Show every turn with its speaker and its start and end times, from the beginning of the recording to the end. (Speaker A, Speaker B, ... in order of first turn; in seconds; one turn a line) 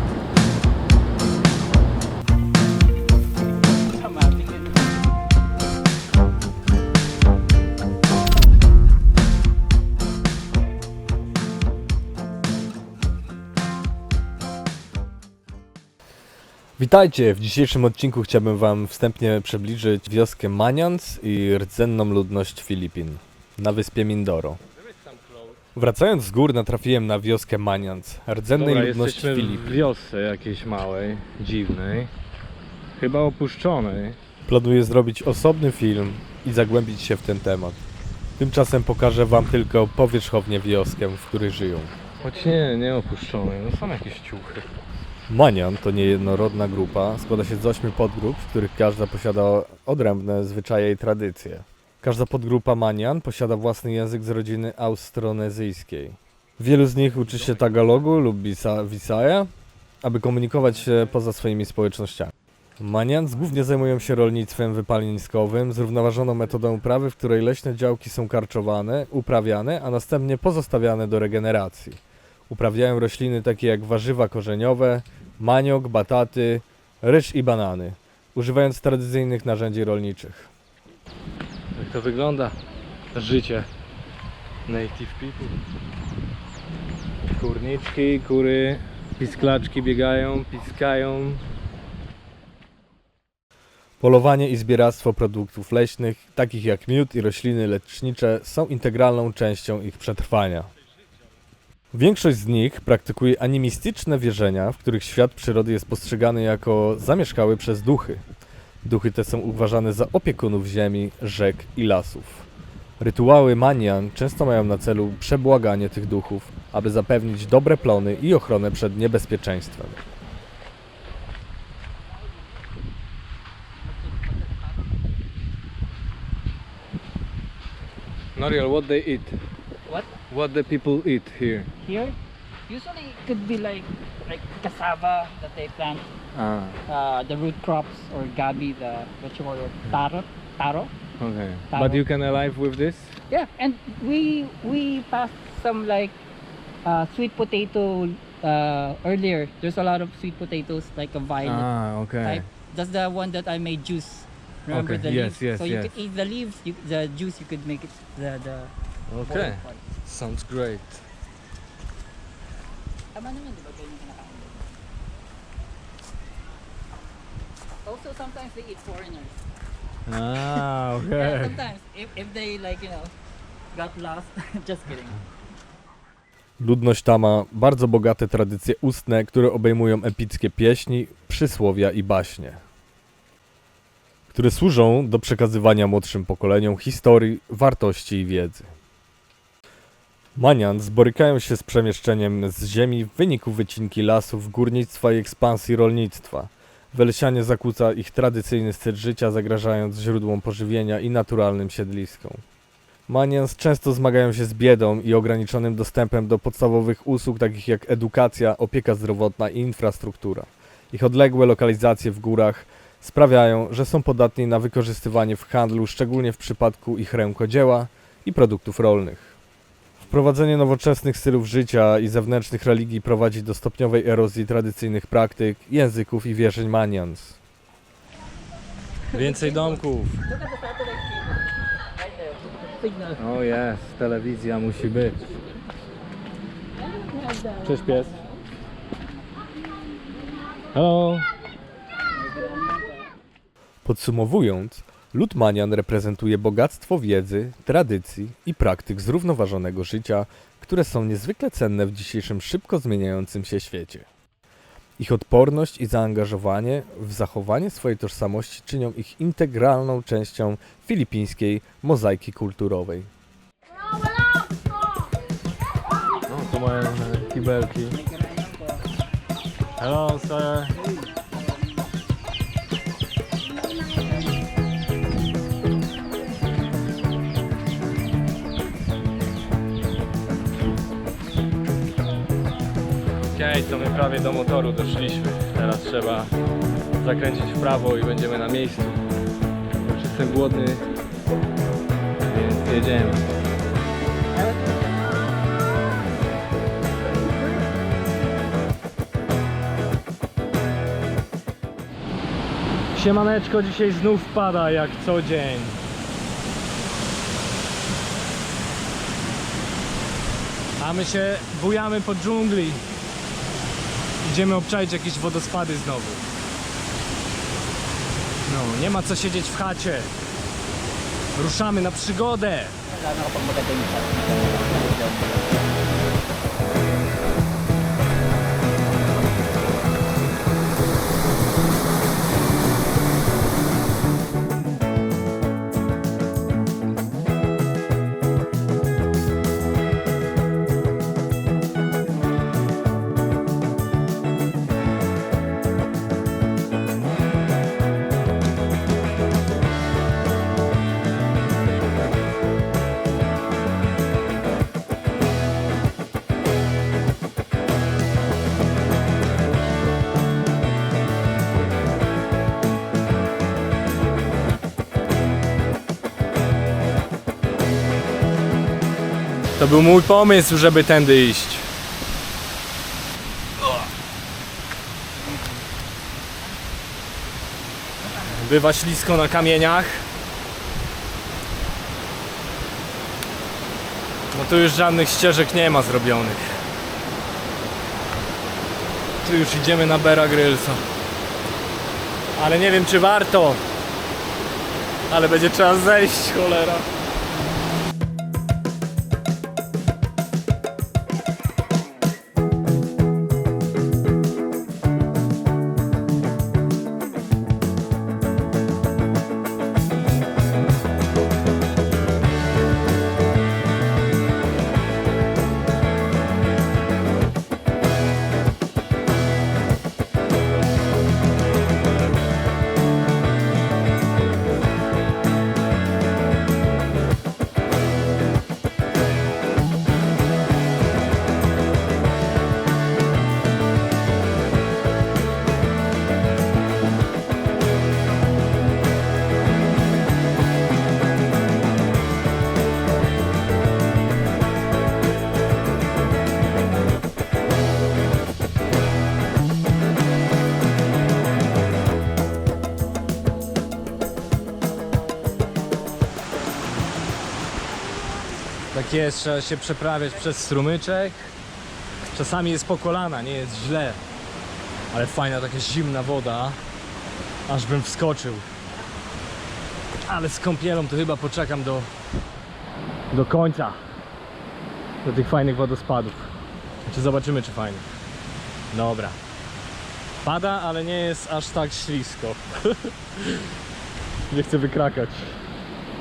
Speaker A: 4.0-4.7
Speaker B: 16.8-24.6
Speaker C: 24.8-25.6
Speaker B: 25.7-29.8
Speaker C: 28.5-32.1
Speaker C: 33.0-34.2
Speaker B: 34.5-37.8
Speaker B: 38.4-41.9
Speaker A: 42.2-43.0
Speaker C: 42.2-44.6
Speaker B: 45.3-59.5
Speaker C: 57.1-58.1
Speaker B: 60.0-72.0
Speaker C: 60.6-61.1
Speaker B: 72.5-80.5
Speaker C: 81.8-82.5
Speaker C: 83.1-83.7
Speaker C: 84.7-85.5
Speaker C: 87.3-91.4
Speaker B: 94.0-100.7
Speaker B: 101.9-108.2
Speaker B: 108.8-112.5
Speaker B: 113.0-120.0
Speaker A: 123.8-124.7
Speaker C: 128.3-129.3
Speaker A: 129.9-130.1
Speaker C: 130.3-131.7
Speaker A: 131.8-132.2
Speaker A: 132.7-136.1
Speaker C: 136.3-136.8
Speaker A: 136.9-140.9
Speaker C: 141.2-143.2
Speaker A: 141.7-142.0
Speaker A: 143.3-146.2
Speaker A: 146.8-159.8
Speaker C: 151.4-152.5
Speaker C: 154.7-155.9
Speaker C: 159.1-161.0
Speaker A: 163.1-164.8
Speaker A: 167.8-169.4
Speaker C: 170.1-171.7
Speaker A: 171.1-173.1
Speaker A: 173.7-175.2
Speaker B: 176.6-182.6
Speaker B: 184.3-188.7
Speaker B: 190.3-202.4
Speaker B: 203.1-219.3
Speaker B: 220.0-227.4
Speaker A: 229.1-233.2
Speaker C: 229.1-230.2
Speaker C: 233.2-235.4
Speaker A: 236.9-237.9
Speaker C: 237.6-238.2
Speaker C: 240.7-241.3
Speaker A: 242.3-242.7
Speaker B: 243.8-254.1
Speaker B: 255.0-263.1
Speaker C: 266.3-268.0
Speaker A: 267.9-268.8
Speaker C: 269.8-270.8
Speaker C: 283.3-286.3
Speaker C: 287.0-289.0
Speaker C: 289.8-290.9
Speaker C: 292.3-293.2
Speaker C: 302.9-305.8
Speaker C: 310.8-312.8
Speaker C: 314.2-316.3
Speaker C: 318.5-320.1
Speaker C: 321.4-322.8
Speaker A: 322.9-325.4
Speaker C: 369.6-371.7
Speaker C: 378.2-380.1
Speaker C: 384.3-386.6
Speaker C: 389.2-390.8
Speaker C: 392.4-393.6
Speaker C: 395.1-396.9
Speaker C: 458.7-461.2
Speaker C: 462.1-464.0
Speaker C: 464.9-466.6
Speaker C: 467.5-468.5
Speaker C: 470.1-471.9
Speaker C: 473.1-473.8
Speaker C: 475.0-476.3
Speaker C: 476.9-477.9
Speaker C: 478.7-479.2
Speaker C: 480.2-483.5
Speaker C: 484.3-485.4